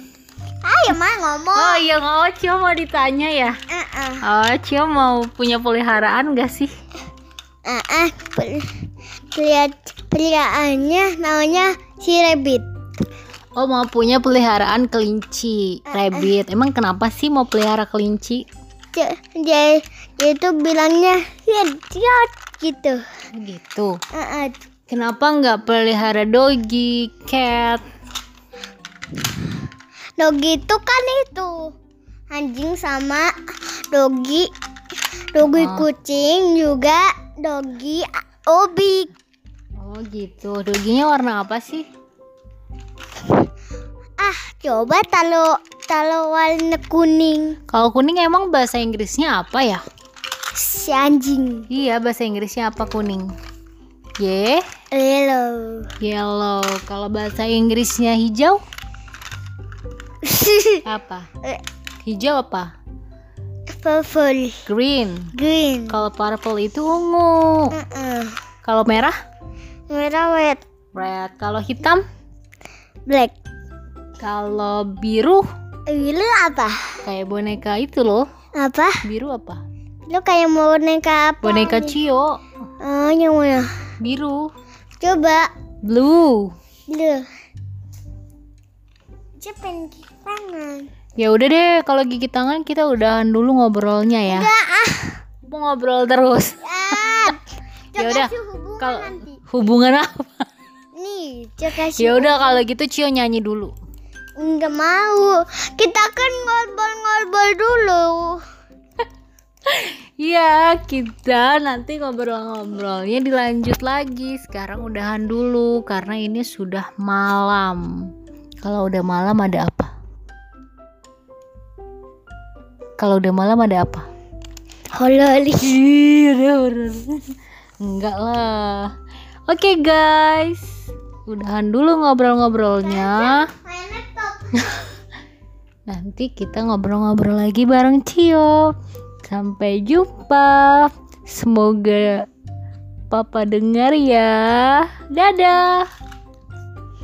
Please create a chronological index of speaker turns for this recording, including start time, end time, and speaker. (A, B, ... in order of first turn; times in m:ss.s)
0:00.6-0:01.8 A
0:01.5-0:03.6 B
0:03.7-0:04.2 A
0:04.2-0:06.7 B
0:07.6-0:08.8 A
0:09.3-0:12.7 A
0:13.6-0:18.4 B
0:15.9-0:16.3 A
0:18.9-0:23.0 A
0:23.4-0:24.0 B
0:24.1-0:24.6 A
0:24.9-0:27.8 B
0:30.2-0:31.7 A
0:32.3-0:33.3 A
0:33.9-0:34.5 A
0:35.3-0:39.1 A
0:35.4-0:35.9 B
0:39.8-0:41.8 B
0:44.2-0:47.6 A
0:47.7-0:49.8 B
0:50.5-0:51.7 A
0:51.7-0:53.3 B
0:54.2-0:54.6 B
0:54.9-0:55.9 A
0:56.0-0:58.6 B
1:00.2-1:00.8 A
1:00.8-1:01.3 B
1:02.0-1:02.7 B
1:03.7-1:04.6 A
1:04.7-1:05.3 B
1:05.3-1:06.0 A
1:05.9-1:07.8 B
1:07.7-1:08.4 A
1:08.6-1:09.1 B
1:09.9-1:10.6 A
1:10.9-1:12.0 B
1:13.1-1:13.3 A
1:14.2-1:15.4 B
1:15.9-1:17.0 A
1:17.0-1:18.3 B
1:18.5-1:19.0 A
1:19.0-1:19.6 B
1:20.1-1:22.0 A
1:21.4-1:22.4 B
1:22.8-1:23.7 A
1:24.0-1:24.5 B
1:25.0-1:25.5 A
1:25.8-1:26.5 B
1:26.9-1:27.3 A
1:29.4-1:30.9 A
1:31.2-1:34.5 B
1:34.3-1:35.2 A
1:35.4-1:36.6 B
1:36.6-1:37.4 A
1:37.9-1:39.4 A
1:38.0-1:40.4 B
1:40.9-1:42.6 A
1:42.0-1:43.7 B
1:44.4-1:48.4 A
1:49.7-1:57.9 B
1:58.6-1:59.9 B
2:03.0-2:04.1 B
2:04.9-2:05.8 A
2:05.6-2:08.9 B
2:09.5-2:13.5 B
2:12.8-2:14.9 A
2:15.9-2:22.3 B
2:23.1-2:25.8 B